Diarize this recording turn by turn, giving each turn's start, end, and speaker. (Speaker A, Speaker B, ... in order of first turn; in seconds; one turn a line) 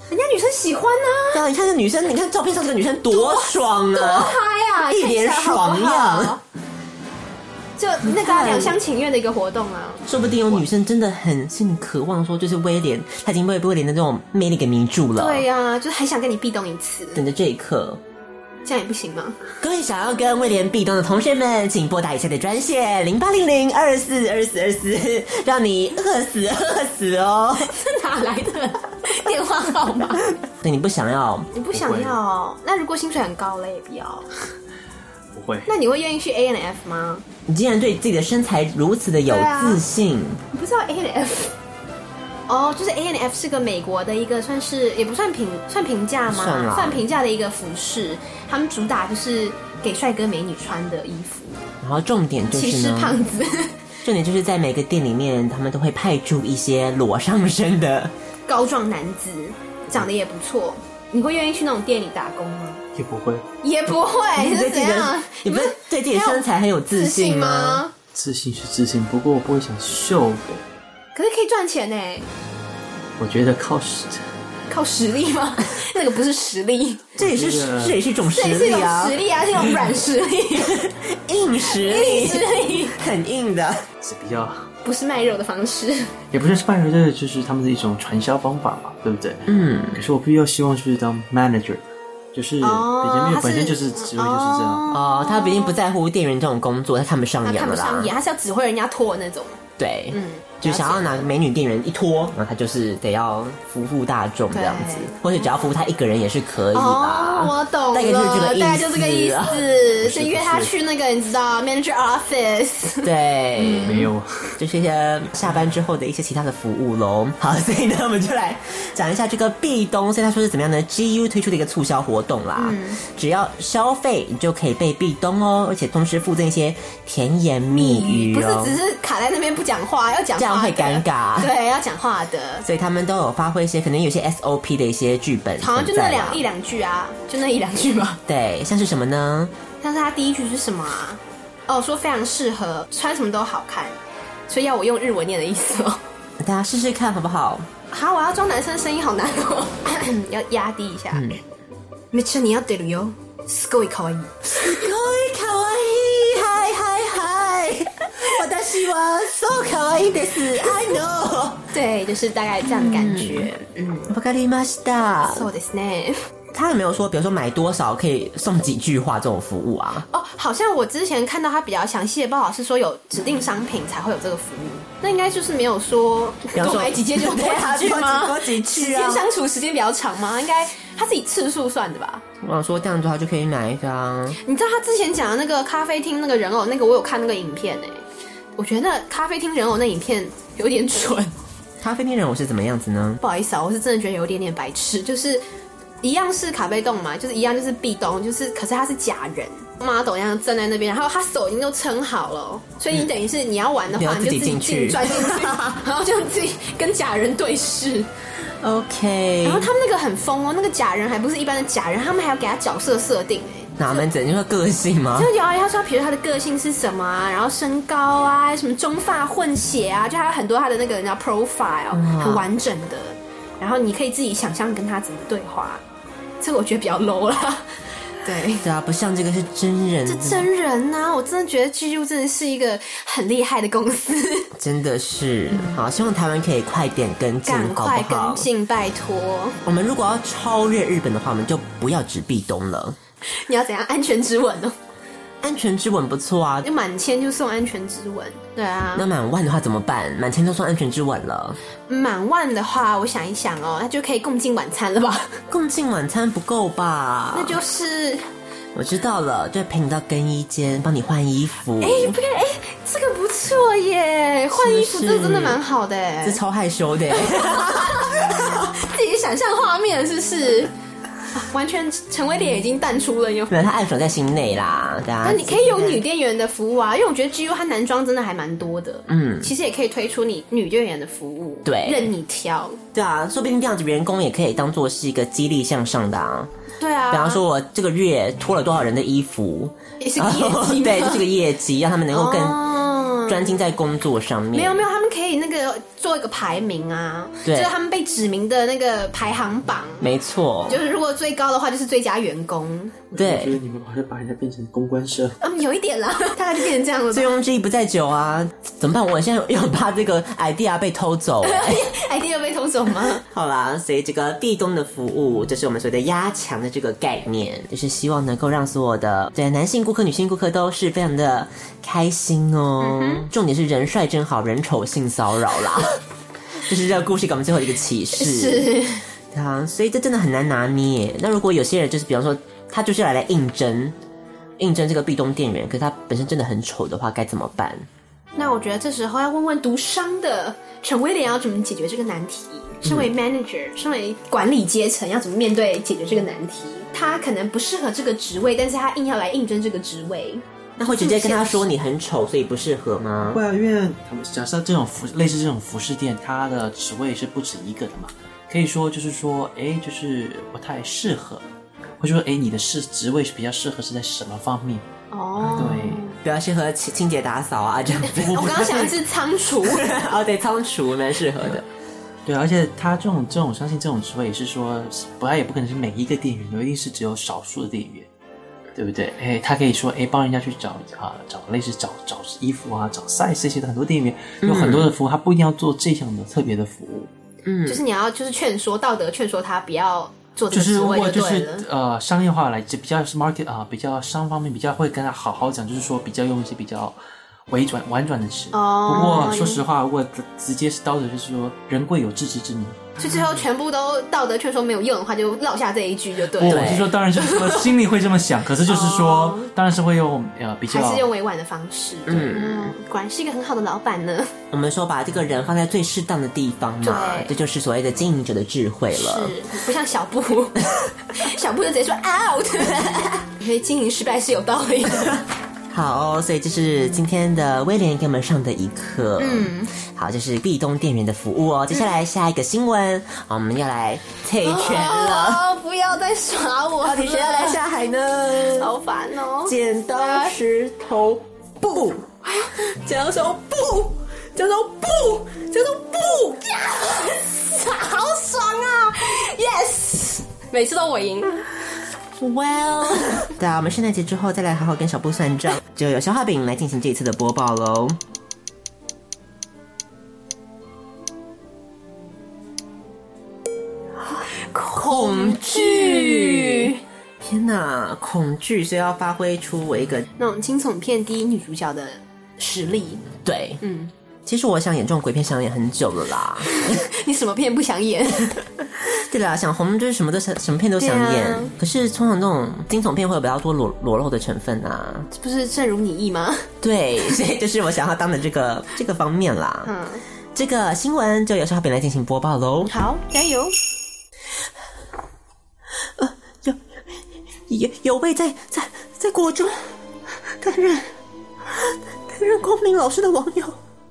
Speaker A: 0.1-1.4
Speaker B: 1.3-6.4
Speaker A: 3.1-6.4
Speaker A: 7.8-10.0
Speaker B: 8.0-8.8
Speaker B: 10.0-15.5
Speaker C: 10.2-10.6
Speaker A: 15.2-17.2
Speaker B: 17.1-18.0
Speaker A: 18.6-19.4
Speaker B: 19.6-27.7
Speaker A: 27.6-30.2
Speaker B: 30.5-31.5
Speaker A: 31.5-34.3
Speaker C: 31.7-32.2
Speaker C: 35.3-35.7
Speaker A: 35.7-37.2
Speaker B: 37.5-40.4
Speaker A: 39.3-39.8
Speaker A: 40.5-41.5
Speaker A: 42.5-51.6
Speaker B: 46.3-47.0
Speaker B: 51.8-53.2
Speaker A: 52.5-53.8
Speaker B: 54.0-58.1
Speaker A: 58.5-62.8
Speaker C: 63.0-63.5
Speaker A: 63.6-67.9
Speaker B: 64.3-67.8
Speaker C: 68.1-70.6
Speaker A: 71.1-72.3
Speaker C: 73.2-74.2
Speaker A: 74.7-77.1
Speaker C: 77.2-78.0
Speaker B: 77.2-79.2
Speaker A: 78.3-80.8
Speaker B: 80.6-83.8
Speaker A: 81.7-83.0
Speaker C: 84.0-84.7
Speaker A: 84.8-86.1
Speaker C: 86.3-94.9
Speaker B: 89.5-90.0
Speaker A: 92.6-95.8
Speaker B: 94.9-98.1
Speaker A: 97.4-99.6
Speaker B: 99.8-109.7
Speaker A: 100.1-101.3
Speaker A: 104.5-105.3
Speaker A: 106.7-114.1
Speaker C: 110.0-110.7
Speaker B: 113.0-128.8
Speaker C: 113.8-114.6
Speaker A: 122.6-123.0
Speaker A: 127.7-132.7
Speaker B: 130.4-131.5
Speaker B: 132.6-136.4
Speaker A: 135.6-138.2
Speaker B: 138.3-139.5
Speaker A: 139.8-144.0
Speaker A: 144.5-146.0
Speaker B: 146.4-147.7
Speaker A: 147.9-151.4
Speaker B: 151.1-151.4
Speaker A: 152.1-154.6
Speaker B: 154.5-161.7
Speaker A: 161.7-164.1
Speaker B: 162.7-163.5
Speaker B: 164.1-165.5
Speaker A: 165.2-166.2
Speaker B: 166.5-170.1
Speaker A: 170.1-182.2
Speaker B: 176.5-179.3
Speaker B: 182.4-184.4
Speaker A: 184.4-188.0
Speaker A: 188.6-191.3
Speaker B: 191.8-193.2
Speaker A: 193.2-195.4
Speaker A: 196.0-208.1
Speaker B: 203.9-205.8
Speaker B: 208.6-209.7
Speaker A: 209.4-214.1
Speaker B: 213.8-215.3
Speaker A: 215.2-225.8
Speaker B: 221.9-222.5
Speaker A: 226.4-228.7
Speaker B: 228.6-230.5
Speaker A: 230.1-234.5
Speaker B: 234.5-238.5
Speaker A: 235.5-235.8
Speaker A: 237.4-239.6
Speaker B: 239.6-243.0
Speaker A: 243.2-244.8
Speaker B: 245.4-246.7
Speaker A: 246.6-249.1
Speaker B: 248.9-251.6
Speaker A: 251.9-255.4
Speaker B: 255.5-257.6
Speaker A: 257.3-258.2
Speaker B: 258.8-262.2
Speaker A: 261.8-266.4
Speaker B: 264.5-265.6
Speaker B: 266.2-268.6
Speaker A: 267.2-270.7
Speaker A: 271.3-273.5
Speaker B: 273.5-276.0
Speaker A: 275.2-282.8
Speaker B: 279.1-279.5
Speaker B: 281.6-282.1
Speaker B: 282.9-286.5
Speaker A: 286.8-287.4
Speaker B: 287.1-294.8
Speaker A: 290.0-291.2
Speaker A: 292.1-293.5
Speaker A: 294.5-300.0
Speaker B: 297.4-297.7
Speaker B: 300.0-300.8
Speaker A: 300.7-303.0
Speaker C: 303.1-305.4
Speaker B: 303.2-303.5
Speaker A: 305.4-307.3
Speaker B: 307.1-311.9
Speaker A: 311.4-313.2
Speaker B: 313.2-326.0
Speaker A: 322.8-323.3
Speaker B: 326.6-328.7
Speaker A: 328.1-329.0
Speaker B: 329.3-334.0
Speaker B: 334.6-337.9
Speaker A: 338.4-351.6
Speaker B: 342.8-343.1
Speaker B: 350.8-353.4
Speaker C: 353.2-361.4
Speaker C: 362.0-364.9
Speaker A: 365.1-366.2
Speaker C: 365.4-366.1
Speaker B: 366.2-368.9
Speaker A: 368.0-369.9
Speaker C: 368.4-368.9
Speaker B: 369.6-371.6
Speaker C: 372.2-378.1
Speaker C: 378.8-387.1
Speaker B: 384.4-384.9
Speaker B: 387.4-387.8
Speaker A: 387.6-391.6
Speaker C: 390.5-397.0
Speaker C: 397.5-402.9
Speaker A: 398.5-399.6
Speaker A: 403.0-407.5
Speaker C: 406.4-411.1
Speaker B: 406.4-406.9
Speaker A: 408.7-409.5
Speaker A: 410.7-414.3
Speaker B: 412.1-412.8
Speaker B: 414.5-419.4
Speaker A: 416.8-417.3
Speaker A: 418.9-425.2
Speaker B: 425.7-435.4
Speaker A: 429.2-429.7
Speaker A: 434.4-437.6
Speaker B: 436.8-438.7
Speaker A: 438.6-440.3
Speaker B: 439.4-442.0
Speaker A: 442.2-451.4
Speaker B: 452.1-458.0
Speaker B: 464.1-470.1
Speaker A: 464.3-466.8
Speaker A: 470.2-473.1
Speaker B: 473.2-473.6
Speaker A: 473.6-473.9
Speaker B: 474.2-476.8
Speaker A: 476.5-478.4
Speaker B: 478.8-485.1
Speaker A: 480.8-481.5
Speaker A: 485.1-486.5
Speaker B: 486.6-489.7
Speaker A: 489.6-490.0
Speaker B: 490.3-492.7
Speaker A: 492.6-493.6
Speaker B: 496.0-496.6
Speaker B: 497.5-499.7
Speaker B: 500.4-500.9
Speaker B: 501.4-503.6